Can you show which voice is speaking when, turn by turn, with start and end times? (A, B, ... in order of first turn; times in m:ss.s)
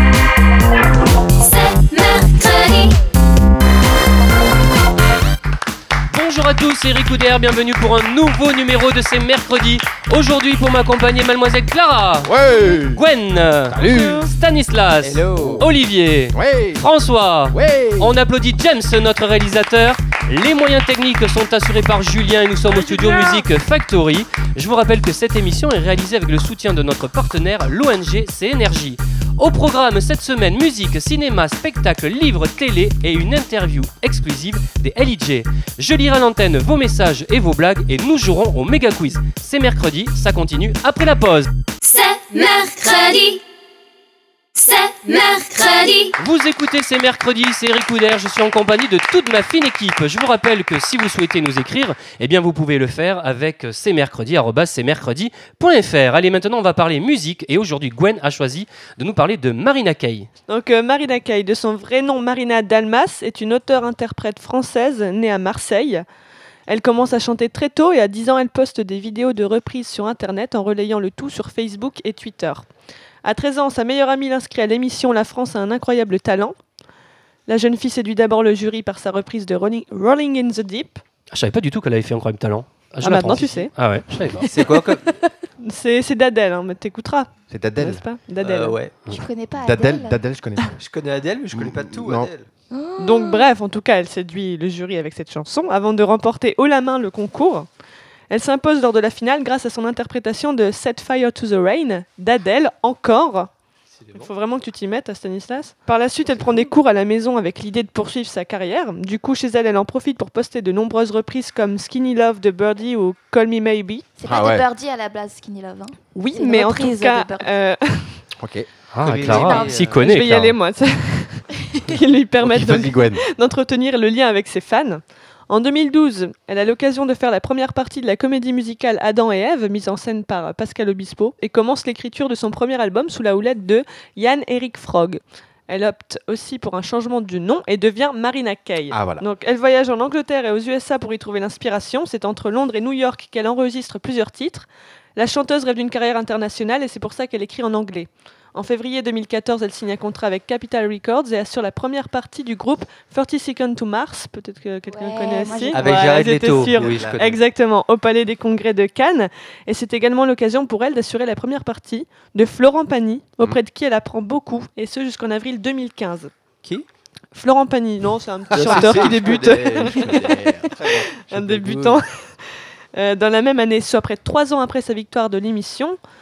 0:01.4-0:03.0 A
0:06.1-0:12.3 B
0:12.2-0:13.0 C
0:12.9-0:41.5 B
0:13.7-0:14.3 C
0:13.8-0:14.3 D
0:15.0-0:15.7 E
0:15.4-0:15.7 C
0:16.3-0:16.8 C
0:17.5-0:18.1 C
0:22.7-0:23.4 D
0:41.8-0:43.4 A
0:44.6-0:46.2 A
0:46.2-1:00.3 B
1:00.5-1:06.0 D
1:06.7-1:12.7 D
1:13.2-1:16.6 D
1:17.5-1:21.0 D
1:21.3-1:24.4 B
1:23.0-1:23.7 D
1:23.4-1:25.1 E
1:24.4-1:27.3 D
1:27.5-1:28.0 C
1:27.8-1:29.0 E
1:27.8-1:28.8 D
1:29.1-1:30.2 F
1:29.6-1:30.7 C
1:30.8-1:32.5 E
1:31.5-1:32.3 C
1:32.7-1:33.4 F
1:33.0-1:37.7 D
1:38.3-1:43.5 D
1:43.9-1:44.3 E
1:44.1-1:54.1 D
1:46.4-1:46.7 E
1:54.2-1:57.5 F
1:54.2-1:54.6 C
1:56.1-1:58.2 D
1:58.4-1:58.7 C
1:58.9-2:00.5 B
1:59.0-2:00.2 E
1:59.3-2:46.3 D
2:02.4-2:03.2 C
2:18.9-2:19.2 C
2:34.9-2:35.9 F
2:35.7-2:37.4 E
2:47.3-2:56.0 D
2:48.5-2:52.0 E
2:48.5-2:49.2 C